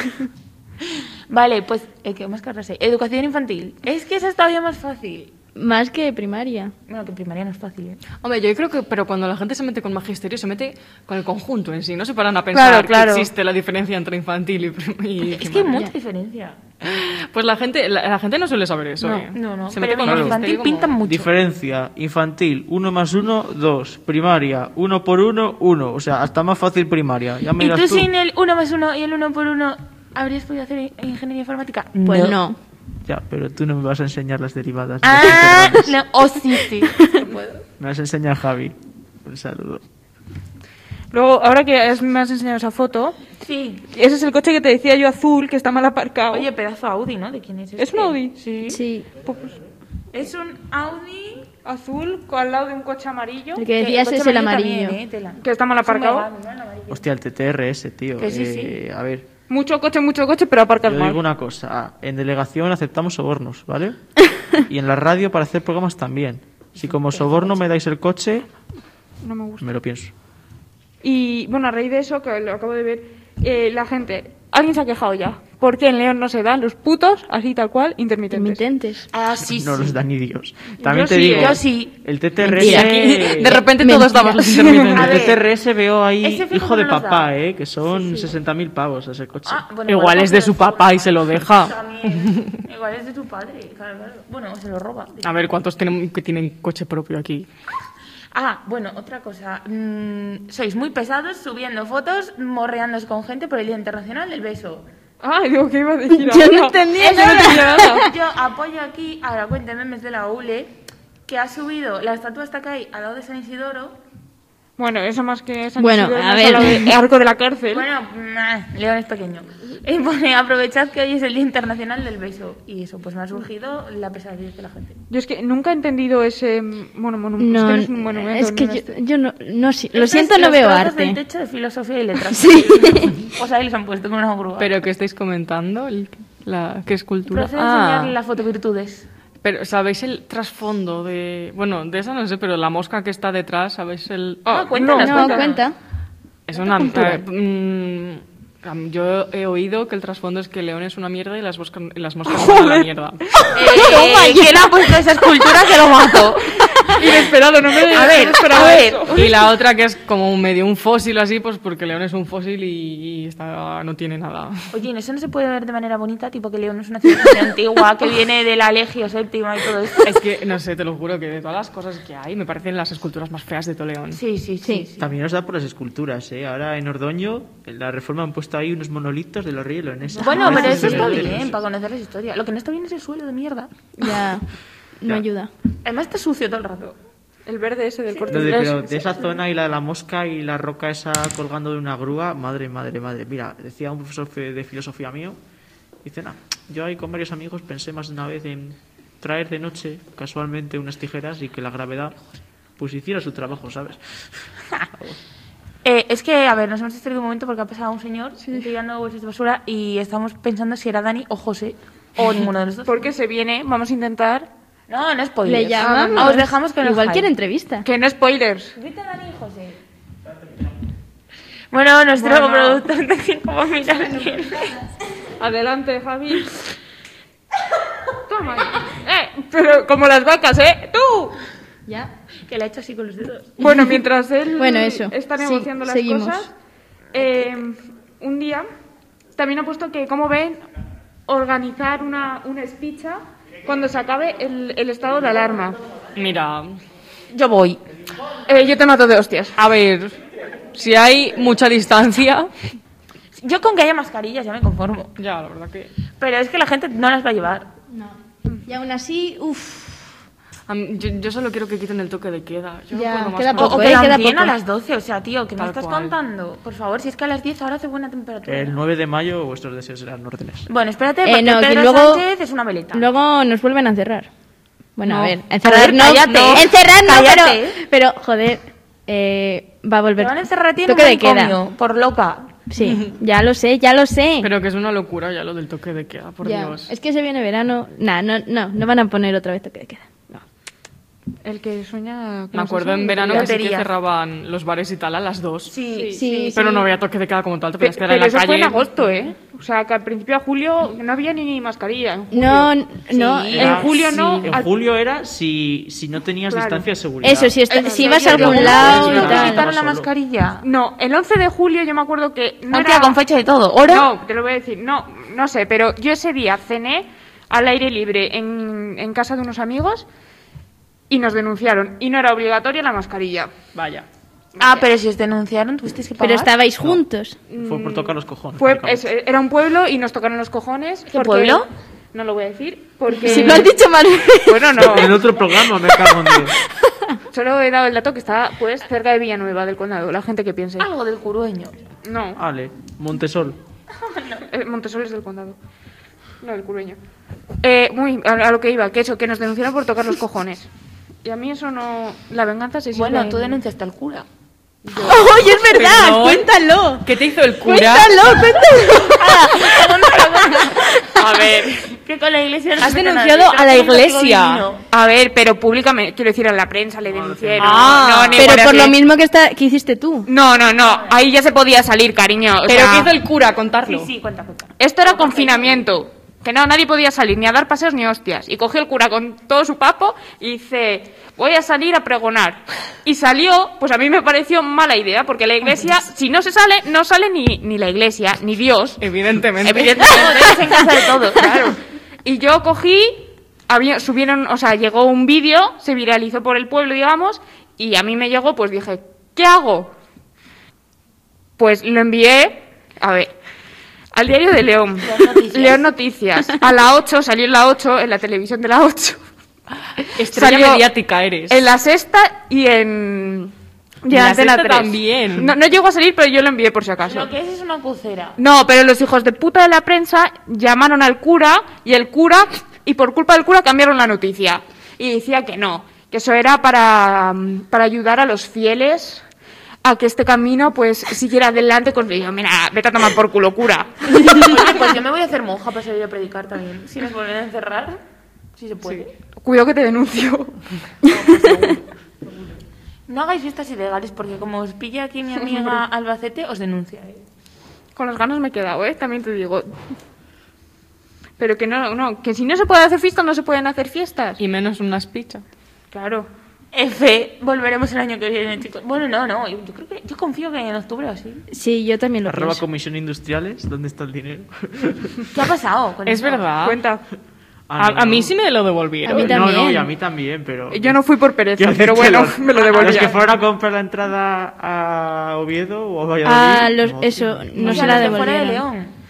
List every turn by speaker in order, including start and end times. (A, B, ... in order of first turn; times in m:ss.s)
0:01.3-0:05.3 A
0:05.6-0:06.7 B
0:06.9-0:08.0 A
0:08.2-0:15.8 C
0:12.5-0:13.3 A
0:15.2-0:16.6 A
0:16.8-0:20.9 C
0:19.0-0:21.3 A
0:20.0-0:20.4 D
0:21.0-0:28.1 D
0:27.6-0:32.4 A
0:32.0-0:32.6 B
0:33.0-0:36.0 D
0:35.0-0:37.6 A
0:37.8-0:39.8 D
0:41.1-0:43.2 E
0:43.4-0:43.8 A
0:43.9-0:46.5 E
0:46.3-0:48.8 A
0:47.8-0:48.6 E
0:48.7-0:49.1 B
0:49.2-0:49.6 E
0:50.1-0:51.5 A
0:51.6-0:53.6 E
0:53.6-0:55.0 B
0:53.7-0:57.0 A
0:55.4-0:56.3 E
0:56.9-0:59.3 D
0:58.2-0:58.8 A
0:59.5-1:01.2 E
1:00.8-1:08.5 D
1:06.8-1:07.6 A
1:09.2-1:09.7 E
1:09.6-1:10.1 D
1:11.0-1:18.6 E
1:18.3-1:19.0 B
1:19.1-1:20.0 A
1:19.4-1:23.6 D
1:20.8-1:21.6 E
1:21.2-1:21.9 A
1:22.5-1:24.6 B
1:22.5-1:25.3 C
1:24.9-1:29.6 D
1:24.9-1:25.5 A
1:26.2-1:27.3 A
1:28.0-1:28.3 A
1:29.4-1:35.3 A
1:29.9-1:32.5 C
1:35.2-1:37.5 C
1:38.3-1:44.8 A
1:45.2-1:48.0 E
1:46.1-1:48.1 B
1:47.0-1:50.7 A
1:51.3-1:54.0 A
1:54.8-1:57.9 E
1:55.8-1:56.9 B
1:57.7-2:05.0 A
2:05.1-2:08.9 E
2:07.4-2:11.2 B
2:09.9-2:14.7 A
2:12.3-2:13.1 B
2:14.6-2:18.2 C
2:17.3-2:19.1 A
2:19.4-2:24.5 C
2:24.4-2:25.5 E
2:24.5-2:25.6 A
2:25.0-2:25.7 B
2:26.5-2:33.2 C
2:26.8-2:27.2 B
2:32.3-2:32.8 E
2:33.5-2:36.9 A
2:33.7-2:34.5 B
2:36.9-2:39.2 E
2:37.9-2:39.2 A
2:39.1-2:44.7 C
2:44.7-2:50.2 A
2:50.0-2:54.2 C
2:54.1-2:55.1 A
2:55.0-3:01.6 D
3:00.2-3:03.7 A
3:00.3-3:01.0 B
3:00.5-3:01.2 C
3:04.0-3:04.4 B
3:05.0-3:05.5 B
3:05.8-3:07.0 A
3:07.4-3:09.0 E
3:08.1-3:09.2 A
3:08.3-3:15.4 D
3:16.0-3:22.2 D
3:22.8-3:24.2 D
3:25.8-3:33.0 A
3:28.4-3:28.7 E
3:32.8-3:34.5 E
3:34.9-3:37.3 A
3:35.4-3:37.8 B
3:35.8-3:36.5 E
3:37.8-3:38.7 E
3:38.8-3:39.8 A
3:41.7-3:44.8 A
3:42.2-3:42.8 E
3:45.4-3:46.6 E
3:48.3-3:51.4 E
3:52.5-3:53.6 A
3:53.6-3:56.5 E
3:54.6-3:56.5 B
3:57.1-3:58.6 E
3:59.3-4:00.6 E
4:01.3-4:05.8 E
4:06.2-4:06.8 C
4:07.3-4:07.8 A
4:08.5-4:09.6 E
4:09.6-4:10.2 C
4:10.7-4:12.5 C
4:13.4-4:15.1 A
4:15.2-4:15.9 C
4:16.2-4:17.7 A
4:17.9-4:20.1 B
4:20.7-4:24.1 C
4:22.9-4:24.5 B
4:23.6-4:28.8 A
4:25.6-4:26.1 C
4:28.4-4:30.7 D
4:30.7-4:33.0 A
4:31.2-4:32.2 B
4:32.9-4:34.3 B
4:35.0-4:41.6 B
4:35.0-4:35.4 C
4:35.6-4:37.8 A
4:40.2-4:42.5 A
4:42.7-4:44.5 B
4:44.4-4:46.9 C
4:46.4-4:50.4 B
4:51.4-4:53.5 E
4:52.5-4:55.8 C
4:53.2-4:53.9 A
4:55.7-4:56.6 A
4:55.9-4:56.2 E
4:56.1-4:56.8 B
4:56.5-4:58.9 C
4:57.8-5:02.7 E
5:02.3-5:03.9 B
5:03.2-5:03.8 A
5:03.5-5:04.7 E
5:03.5-5:07.6 D
5:06.5-5:06.9 E
5:07.2-5:09.6 B
5:07.7-5:09.5 E
5:07.7-5:10.6 A
5:08.2-5:10.1 D
5:10.6-5:13.2 E
5:12.7-5:14.1 A
5:13.8-5:20.1 E
5:21.1-5:23.5 E
5:23.7-5:24.0 C
5:24.6-5:24.9 E
5:24.6-5:26.5 A
5:26.2-5:27.4 B
5:27.5-5:33.8 E
5:27.6-5:29.1 D
5:31.1-5:31.7 A
5:33.2-5:34.8 B
5:34.4-5:35.3 E
5:34.7-5:36.6 D
5:35.9-5:36.4 B
5:37.3-5:40.9 E
5:40.8-5:41.8 A
5:42.0-5:42.4 E
5:42.4-5:43.6 D
5:44.0-5:44.4 A
5:44.5-5:45.6 E
5:46.4-5:47.0 E
5:47.6-5:50.7 E
5:51.2-5:53.6 E
5:52.9-5:54.2 A
5:54.8-5:55.3 E
5:55.0-5:57.1 B
5:55.7-5:58.4 C
5:57.6-5:59.8 B
5:59.1-6:04.8 A
6:01.2-6:01.8 C
6:02.8-6:04.6 C
6:04.9-6:09.0 E
6:07.0-6:08.0 D
6:07.6-6:08.5 C
6:08.4-6:10.3 B
6:10.2-6:13.1 E
6:10.8-6:11.2 A
6:12.6-6:14.1 C
6:13.8-6:15.8 A
6:14.8-6:29.0 E
6:29.0-6:30.5 C
6:29.6-6:30.5 E
6:29.7-6:31.8 A
6:31.4-6:31.7 E
6:32.2-6:39.9 E
6:41.6-6:43.3 E
6:44.1-6:49.2 E
6:45.0-6:45.9 A
6:50.1-6:51.6 C
6:50.3-6:50.9 E
6:51.5-6:53.5 E
6:54.0-6:57.3 E
6:54.1-6:55.6 C
6:57.0-6:58.4 A
6:58.4-7:09.2 E
7:09.8-7:14.4 E
7:14.1-7:18.0 A
7:18.6-7:19.1 A
7:19.4-7:20.6 E
7:21.1-7:21.8 A
7:23.1-7:27.2 A
7:28.0-7:29.7 E
7:31.4-7:34.4 E
7:34.4-7:35.4 C
7:35.9-7:36.3 E
7:36.7-7:41.4 A
7:41.5-7:42.6 B
7:42.2-7:45.1 D
7:45.3-7:46.5 A
7:46.0-7:46.8 C
7:46.6-7:47.0 E
7:47.7-7:48.4 D
7:47.8-7:49.5 C
7:49.0-7:49.9 B
7:49.1-7:51.0 D
7:50.7-7:53.2 E
7:51.6-7:58.2 D
7:52.6-7:53.2 A
7:56.2-7:58.6 B
7:57.6-7:58.1 C
7:57.6-7:58.9 A